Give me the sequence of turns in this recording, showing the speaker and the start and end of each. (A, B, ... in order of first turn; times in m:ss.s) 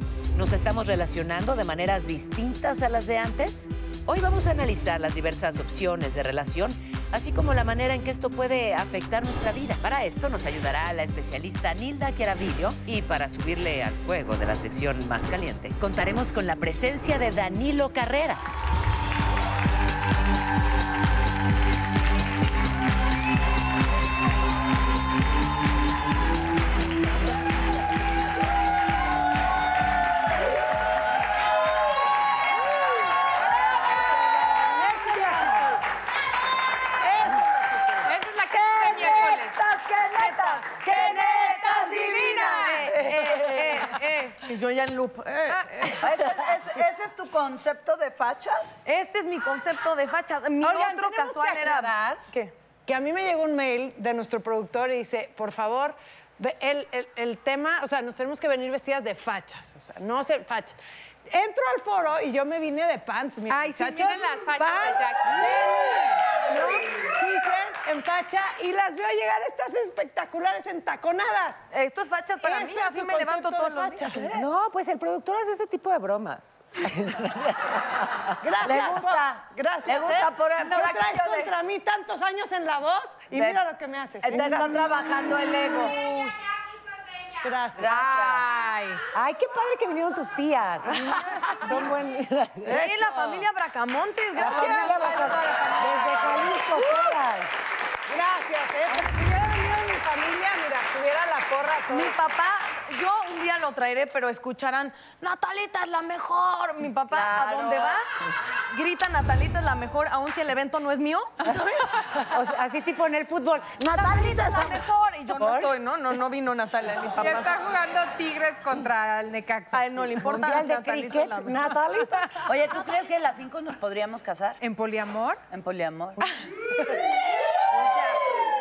0:00.3-0:18.4 A
0:34.0-0:35.8 B
0:37.0-0:38.1 B
0:38.0-0:39.6 C
0:38.5-0:43.8 D
0:40.2-0:46.4 E
0:41.7-0:43.0 C
0:45.5-0:45.9 C
0:46.0-0:48.8 D
0:48.8-0:52.5 E
0:50.6-0:52.2 B
0:52.9-1:00.8 B
1:01.3-1:11.7 B
1:03.5-1:05.6 C
1:11.7-1:14.3 E
1:12.4-1:14.5 B
1:14.3-1:18.3 A
1:18.4-1:24.9 B
1:18.6-1:21.5 D
1:23.3-1:23.6 D
1:24.2-1:26.0 D
1:27.4-1:27.9 B
1:27.8-1:28.5 D
1:27.9-1:29.0 C
1:29.1-1:33.0 A
1:31.0-1:31.8 E
1:32.7-1:35.4 E
1:34.4-1:37.5 A
1:34.4-1:36.6 C
1:38.1-1:42.2 B
1:41.9-1:48.1 E
1:47.1-1:48.0 D
1:48.7-1:51.9 E
1:52.1-1:55.7 A
1:53.9-1:57.6 E
1:57.2-2:00.0 C
1:59.7-2:02.0 E
2:00.2-2:02.3 A
2:02.4-2:04.6 D
2:04.6-2:05.4 C
2:05.5-2:06.2 D
2:07.7-2:08.2 D